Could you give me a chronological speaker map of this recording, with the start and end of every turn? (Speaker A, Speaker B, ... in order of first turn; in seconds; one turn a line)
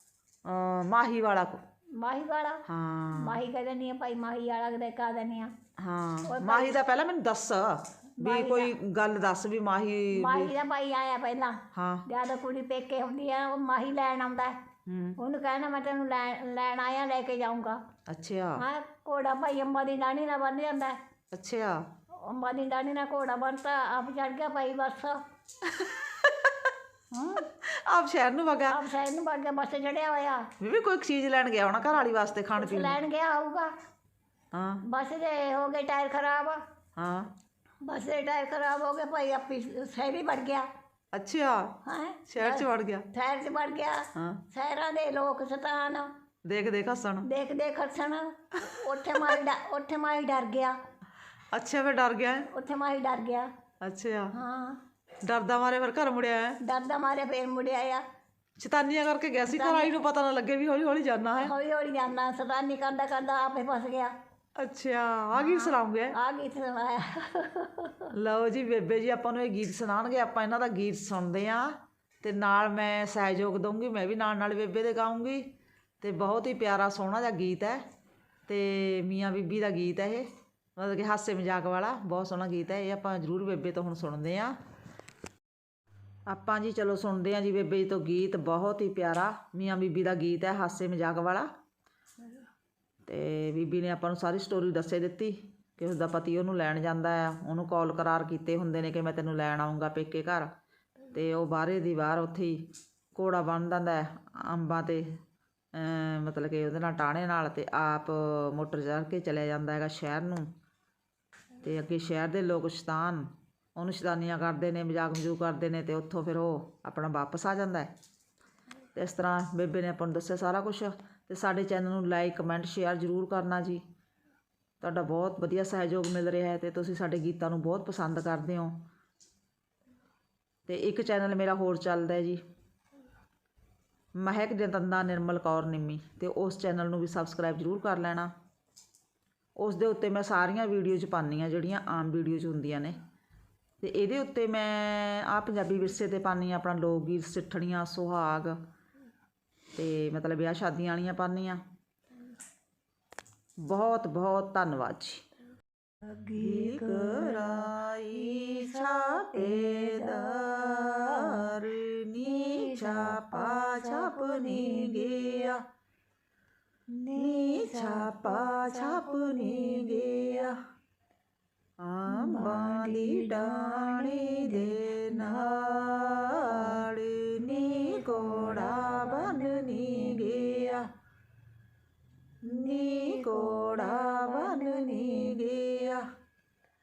Speaker A: 0.5-1.6
Speaker B: 2.0-2.6
Speaker A: 2.7-3.4
Speaker B: 3.1-5.5
Speaker A: 5.8-10.5
Speaker B: 6.3-6.8
Speaker B: 8.2-8.7
Speaker B: 10.1-14.6
Speaker A: 11.7-12.0
Speaker A: 14.9-15.2
Speaker B: 15.2-17.8
Speaker A: 18.1-18.6
Speaker B: 18.6-21.0
Speaker A: 21.3-21.8
Speaker B: 22.2-25.2
Speaker A: 25.7-26.7
Speaker A: 27.2-28.8
Speaker B: 28.7-30.5
Speaker A: 30.6-33.0
Speaker B: 32.6-33.7
Speaker A: 34.5-34.8
Speaker B: 34.9-36.6
Speaker A: 37.0-37.3
Speaker B: 37.8-40.6
Speaker A: 41.1-43.1
Speaker B: 41.9-46.1
Speaker A: 44.1-44.4
Speaker A: 46.5-47.3
Speaker B: 47.2-50.8
Speaker A: 48.6-49.2
Speaker A: 51.5-52.5
Speaker B: 52.5-53.5
Speaker A: 53.8-54.3
Speaker B: 54.3-54.8
Speaker A: 55.2-56.6
Speaker B: 56.6-58.0
Speaker A: 58.6-61.5
Speaker B: 59.4-60.0
Speaker B: 61.4-64.1
Speaker A: 64.6-66.1
Speaker B: 65.3-68.1
Speaker A: 68.1-75.4
Speaker A: 76.0-77.8
Speaker A: 78.5-80.2
Speaker A: 80.8-84.5
Speaker A: 86.3-91.5
Speaker A: 93.0-100.5
Speaker A: 101.1-105.0
Speaker A: 105.7-110.5
Speaker A: 111.6-117.9
Speaker A: 118.9-123.8
Speaker A: 124.8-128.7
Speaker A: 130.7-132.4
Speaker A: 134.2-138.3
Speaker A: 139.6-143.0
Speaker A: 143.8-148.6
Speaker A: 149.7-151.6
Speaker A: 153.6-155.2
Speaker B: 156.0-161.6
Speaker A: 156.3-165.6
Speaker B: 162.2-165.5
Speaker B: 166.9-170.3
Speaker A: 167.1-170.5
Speaker A: 171.8-180.8
Speaker B: 172.1-175.6
Speaker B: 176.4-176.7
Speaker B: 177.7-180.7
Speaker A: 182.4-186.0
Speaker B: 182.8-185.4